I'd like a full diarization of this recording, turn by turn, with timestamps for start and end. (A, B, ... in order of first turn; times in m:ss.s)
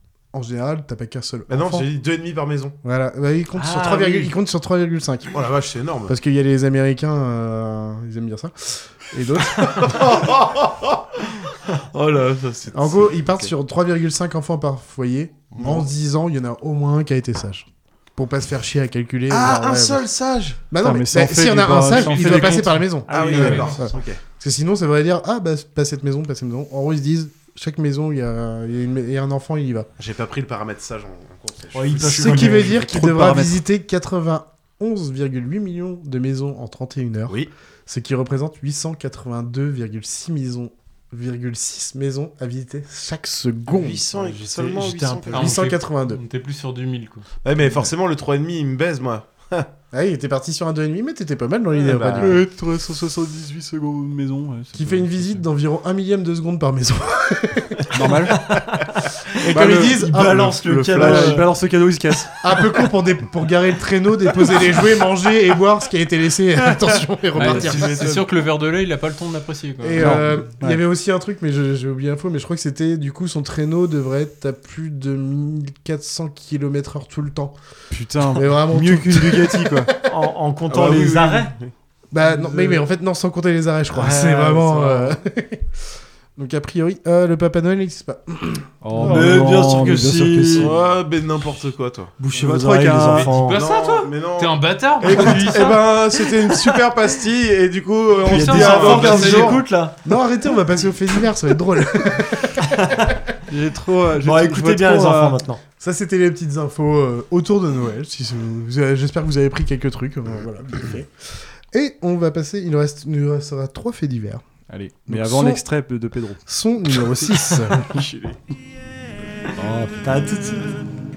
0:00.3-0:01.9 A
0:01.5-0:02.8 B
0:02.8-0:05.4 A
0:03.5-0:04.3 C
0:05.3-0:06.1 B
0:06.1-0:10.0 A
0:09.6-0:13.3 B
0:12.7-0:20.0 A
0:19.3-0:20.6 B
0:20.7-0:29.9 A
0:20.8-0:23.0 D
0:23.1-0:23.8 C
0:23.1-0:24.2 B
0:23.2-0:23.7 E
0:30.0-0:32.8 B
0:31.7-0:32.8 C
0:32.1-0:44.0 A
0:32.7-0:33.6 D
0:43.7-0:45.6 B
0:44.1-0:45.6 C
0:45.3-0:47.2 E
0:45.3-0:46.2 A
0:47.4-0:49.7 B
0:49.9-0:52.4 A
0:51.7-0:52.4 B
0:52.2-0:55.4 D
0:54.7-0:58.1 A
0:57.9-0:58.5 D
0:59.4-1:01.4 A
0:59.5-1:02.4 D
0:59.6-1:01.5 C
1:02.4-1:08.3 A
1:07.3-1:10.2 E
1:07.5-1:07.8 B
1:09.8-1:17.6 A
1:10.0-1:10.8 D
1:17.9-1:19.9 D
1:18.3-1:19.9 A
1:20.0-1:21.5 C
1:20.7-1:21.7 B
1:22.1-1:25.7 A
1:22.4-1:22.8 C
1:23.9-1:25.1 C
1:26.4-1:29.3 A
1:28.8-1:30.7 D
1:29.0-1:30.7 C
1:29.1-1:29.5 B
1:30.5-1:32.1 B
1:32.2-1:33.6 C
1:32.3-1:33.3 D
1:33.1-1:35.9 E
1:33.4-1:39.6 B
1:38.2-1:40.0 C
1:38.3-1:39.6 E
1:39.1-1:42.7 A
1:42.8-1:43.1 C
1:43.5-1:45.4 D
1:44.2-1:45.6 C
1:45.8-1:54.4 A
1:54.7-1:56.4 D
1:55.1-1:55.6 A
1:56.4-1:58.0 A
1:57.8-1:58.3 D
1:59.6-2:00.0 D
2:00.0-2:00.8 C